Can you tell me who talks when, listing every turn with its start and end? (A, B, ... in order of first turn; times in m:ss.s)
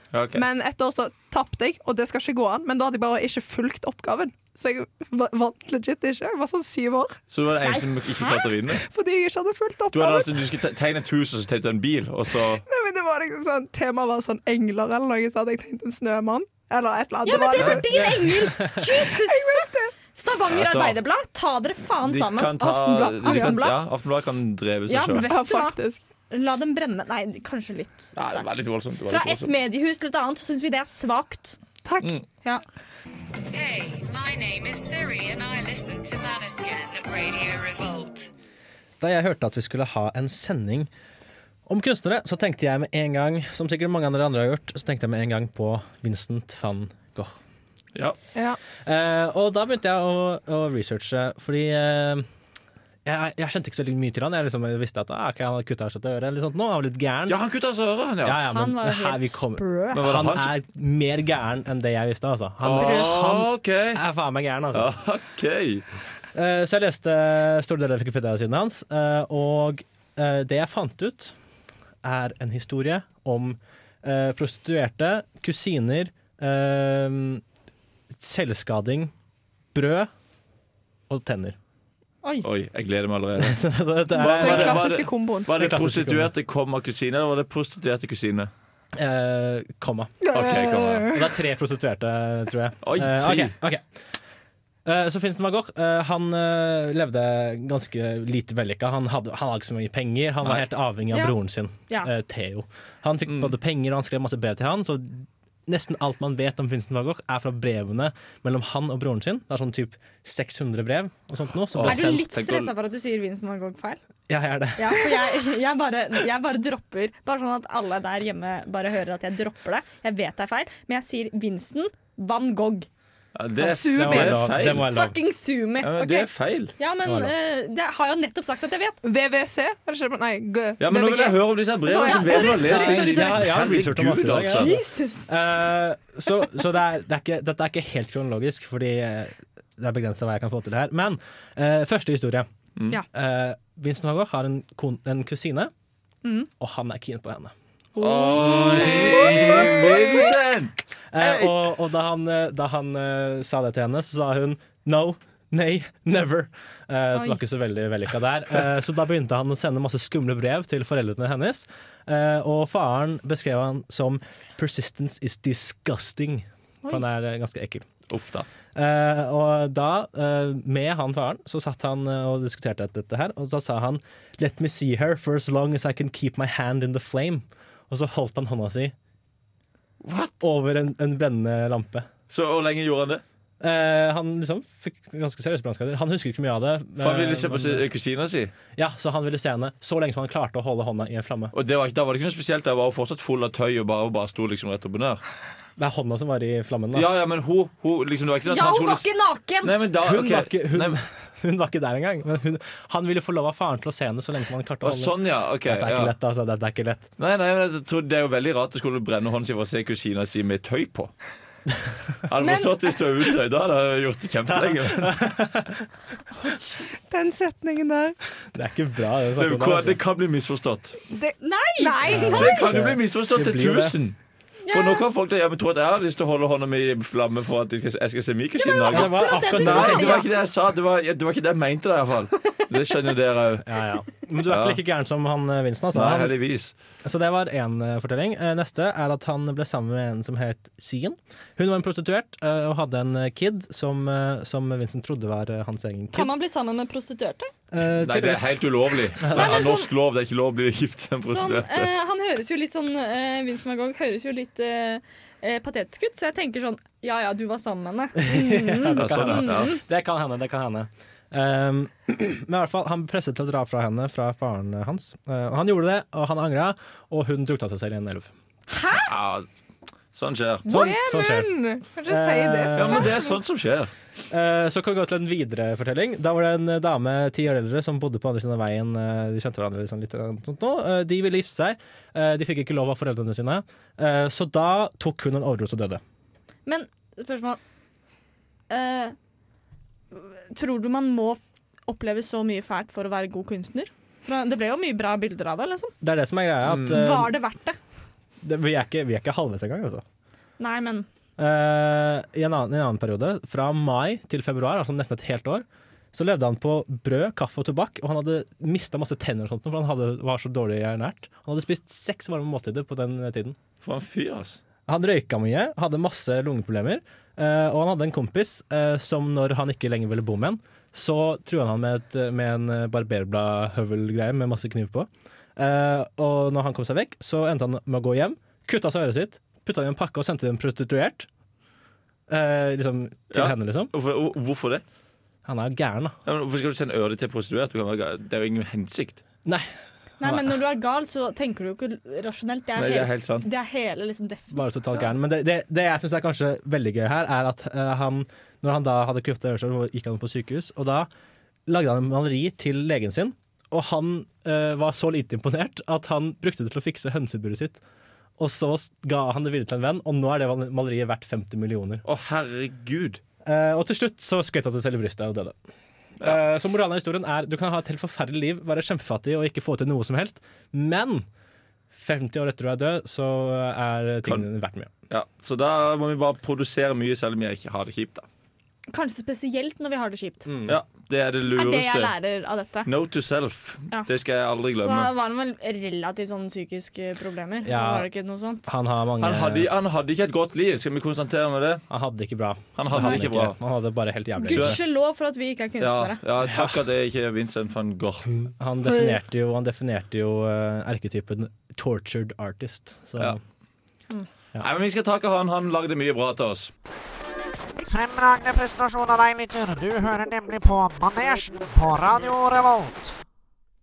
0:00.1-0:00.4 A
0:00.3-0:07.2 B
0:07.3-0:08.8 A
0:07.6-0:08.4 C
0:08.8-0:10.3 B
0:09.9-0:12.6 A
0:12.6-0:17.9 B
0:17.2-0:23.8 C
0:17.9-0:18.8 D
0:18.9-0:19.9 B
0:20.5-0:21.0 A
0:22.0-0:25.3 A
0:23.3-0:23.5 B
0:24.9-0:25.8 C
0:25.1-0:26.0 B
0:26.3-0:28.5 C
0:28.2-0:29.5 A
0:29.0-0:31.6 C
0:31.8-0:32.1 B
0:33.5-0:38.3 E
0:39.0-0:40.9 D
0:41.7-0:47.4 D
0:48.8-0:52.2 D
0:53.0-0:57.4 D
0:57.3-0:58.4 A
0:58.2-1:05.0 D
0:58.4-1:00.0 C
0:59.9-1:00.5 A
1:02.6-1:03.2 C
1:02.6-1:04.0 A
1:04.7-1:05.8 A
1:06.3-1:11.3 D
1:12.0-1:17.4 D
1:18.1-1:19.1 D
1:19.7-1:20.1 D
1:21.1-1:21.6 D
1:22.4-1:23.6 A
1:23.4-1:24.8 D
1:24.2-1:25.5 B
1:24.2-1:28.5 A
1:25.5-1:26.3 D
1:28.9-1:30.3 D
1:30.2-1:31.3 B
1:30.3-1:31.1 A
1:31.0-1:33.8 D
1:32.8-1:33.5 A
1:34.8-1:52.3 D
1:43.3-1:43.5 A
1:51.7-1:52.7 A
1:51.8-1:54.0 C
1:54.3-1:55.1 D
1:54.8-2:02.9 C
2:03.3-2:04.9 A
2:03.6-2:04.3 B
2:03.6-2:05.2 D
2:03.7-2:09.0 C
2:05.8-2:06.7 A
2:07.0-2:07.3 D
2:09.0-2:12.9 B
2:10.8-2:14.7 A
2:11.9-2:13.4 C
2:12.6-2:14.8 D
2:14.5-2:15.3 C
2:15.3-2:22.5 D
2:23.1-2:25.7 D
2:26.2-2:26.5 C
2:26.6-2:27.5 D
2:28.0-2:31.5 A
2:28.0-2:30.0 B
2:28.4-2:29.7 D
2:31.1-2:47.8 D
2:37.1-2:37.4 C
2:48.1-2:48.5 A
2:48.7-2:58.9 D
3:00.0-3:00.3 A
3:00.4-3:02.1 D
3:02.3-3:03.2 A
3:03.6-3:07.8 D
3:07.0-3:08.5 A
3:08.8-3:11.5 D
3:11.5-3:15.2 A
3:15.8-3:17.1 D
3:16.9-3:19.1 A
3:18.5-3:19.7 C
3:19.6-3:21.0 A
3:20.0-3:27.1 D
3:24.8-3:26.1 A
3:27.2-3:31.1 A
3:32.3-3:35.2 A
3:32.4-3:32.9 C
3:34.5-3:35.8 D
3:36.4-3:36.9 C
3:37.1-3:38.2 B
3:38.5-3:40.0 D
3:39.4-3:41.0 A
3:41.1-3:42.5 B
3:41.4-3:42.5 C
3:42.1-3:44.0 D
3:42.1-3:44.2 A
3:44.7-3:45.0 C
3:44.7-3:53.7 A
3:48.6-3:50.2 C
3:48.9-3:50.2 D
3:53.6-3:56.3 D
3:54.4-3:54.8 A
3:55.9-3:56.7 A
3:57.0-4:06.3 D
4:06.1-4:07.5 C
4:07.7-4:08.6 D
4:08.0-4:11.9 A
4:09.2-4:09.7 D
4:09.3-4:09.9 C
4:11.2-4:19.8 C
4:18.2-4:28.3 D
4:19.0-4:19.7 A
4:29.0-4:29.5 A
4:30.1-4:31.3 A
4:30.7-4:31.5 D
4:30.7-4:33.3 B
4:32.1-4:33.2 D
4:32.7-4:33.9 A
4:34.3-4:46.0 D
4:46.7-4:47.6 C
4:48.7-4:49.2 C
4:50.1-4:55.9 C
4:56.0-4:57.3 D
4:56.8-4:57.8 C
4:58.4-5:00.0 D
5:00.6-5:01.1 C
5:01.4-5:13.6 D
5:13.8-5:14.6 A
5:14.9-5:31.3 D
5:32.3-5:33.9 D
5:33.3-5:34.8 A
5:35.4-5:36.2 D
5:36.2-5:39.2 A
5:40.2-5:44.6 C
5:40.2-5:40.6 D
5:42.8-5:43.5 A
5:44.5-5:51.1 D
5:51.7-5:57.8 D
5:58.4-6:02.0 D
6:02.0-6:03.2 A
6:03.4-6:05.6 D
6:06.2-6:11.3 D
6:11.9-6:14.9 D
6:15.1-6:18.2 A
6:18.9-6:20.4 C
6:20.4-6:20.8 D
6:20.7-6:22.1 A
6:21.6-6:22.9 C
6:22.8-6:25.1 A
6:24.8-6:28.7 C
6:27.6-6:28.1 D
6:28.7-6:29.7 D
6:29.2-6:31.8 A
6:31.9-6:34.8 D
6:32.8-6:33.6 A
6:32.9-6:33.2 C
6:34.4-6:36.2 C
6:34.5-6:34.8 A
6:35.8-6:38.5 A
6:36.4-6:36.8 D
6:38.6-6:43.4 D
6:44.6-6:46.7 A
6:47.8-6:53.2 F